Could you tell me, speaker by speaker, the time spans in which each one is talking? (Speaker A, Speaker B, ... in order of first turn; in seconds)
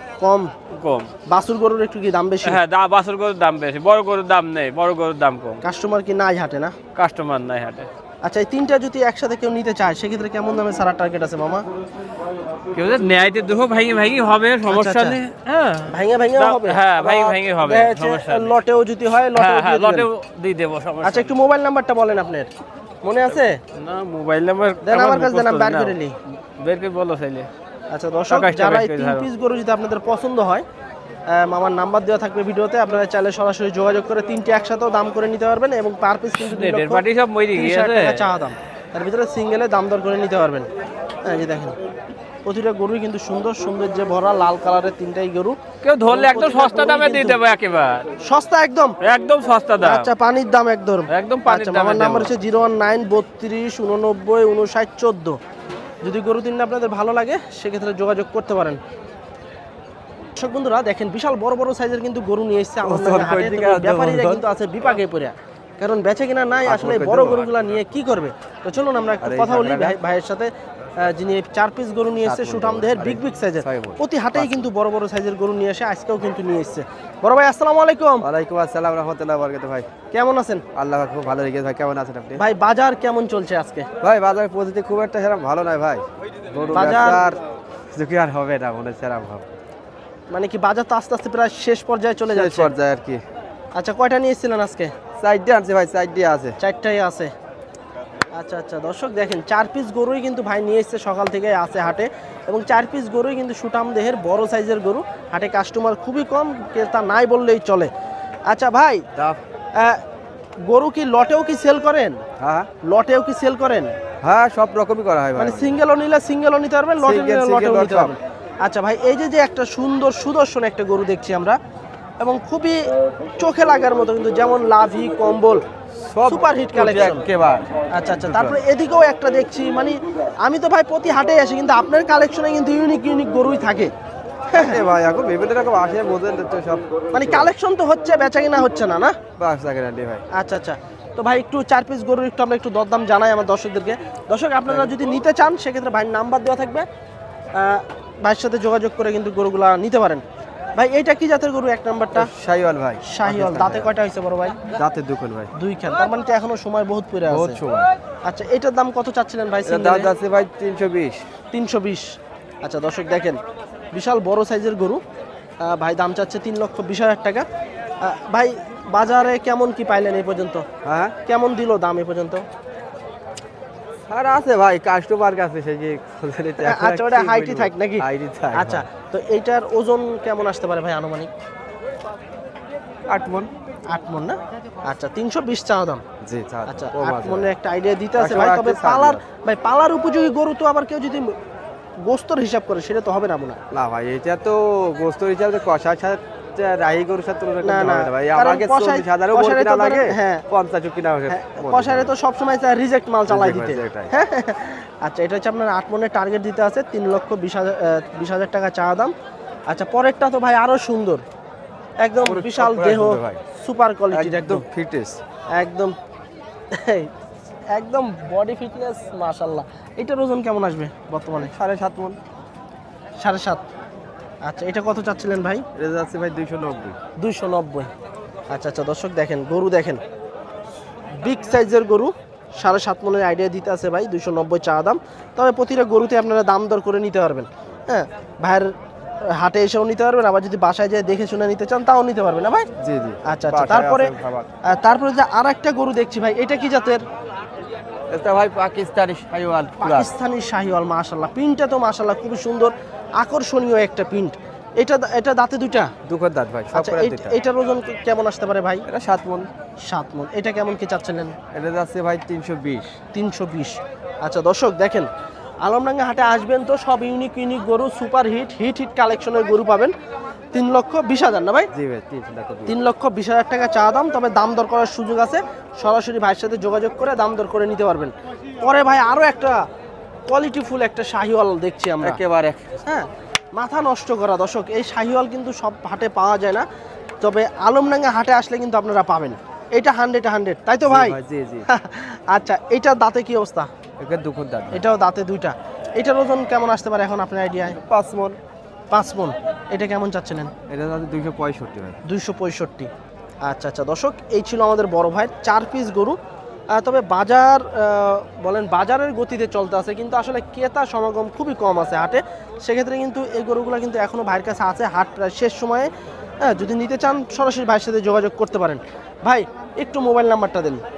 Speaker A: 0.2-0.5, 1.3-2.6, 5.6-6.7, 8.2-11.7, 14.7-15.2, 15.9-20.1, 21.0-22.5, 23.0-23.6, 24.8-26.1, 27.9-30.6, 31.3-40.7, 41.2-41.8, 42.4-47.4, 48.2-49.0, 49.8-55.4, 56.0-58.8, 60.4-78.2, 80.1-80.6, 82.4-83.9, 86.7-87.3, 90.3-92.7, 93.7-94.9, 96.6-97.3, 98.3-107.9, 108.5-109.1, 109.8-110.0, 110.6-112.2, 112.8-113.9, 115.3-121.6, 122.2-125.6, 126.2-127.2, 127.9-133.9, 134.5-134.8, 137.1-139.2, 140.3-146.9, 147.5-150.2, 150.7-152.3, 153.0-154.6, 155.5-157.6, 158.2-160.1, 161.5-163.4, 163.9-165.0, 165.6-167.4, 168.0-170.6, 171.2-172.4, 176.6-181.3, 183.9-186.0, 186.7-191.3, 192.0-193.6, 197.6-200.4, 201.3-209.1, 209.7-211.2, 212.0-214.6, 215.5-215.9, 216.7-217.1, 217.7-221.5, 223.2-223.6, 224.4-225.6, 227.2-227.9, 228.5-230.0, 231.2-242.7, 243.2-244.1, 244.7-247.0, 249.8-255.9, 256.7-258.8, 259.8-261.4, 263.1-265.1, 265.6-269.9, 270.5-271.7, 272.7-279.6, 280.3-282.2, 282.9-286.7, 287.2-293.7, 294.7-297.8, 298.9-300.5, 302.1-302.9, 303.4-306.2, 306.7-315.9, 316.4-320.8
Speaker B: 0.7-1.1, 2.4-5.6, 7.0-7.9, 12.7-18.6, 19.2-21.3, 23.3-25.9, 26.6-27.5, 28.3-29.3, 36.4-38.3, 45.8-48.1, 49.0-50.1, 51.1-52.3
Speaker C: 62.8-64.4, 66.7-67.5, 69.2-70.0, 72.2-74.7, 78.2-80.0, 80.7-82.4, 84.0-87.4, 87.9-89.5, 92.3-93.2, 95.2-96.5, 112.4-112.7, 114.2-115.8, 117.0-118.1, 126.1-127.7, 128.2-128.6, 134.5-137.5, 139.2-140.2, 152.1-153.9, 154.7-155.5, 157.3-157.9, 159.7-161.2, 170.8-171.2, 174.1-178.8, 183.1-183.5, 186.2-187.5, 188.2-189.2, 193.7-202.1, 203.3-204.1, 212.2-213.4, 214.1-215.2, 221.5-222.2, 225.8-227.0, 242.8-244.5, 248.1-250.1, 256.0-257.3, 258.9-259.5, 261.5-262.9, 271.7-272.8, 282.0-282.8, 290.9-291.7, 294.0-294.8, 297.9-298.4, 300.7-302.0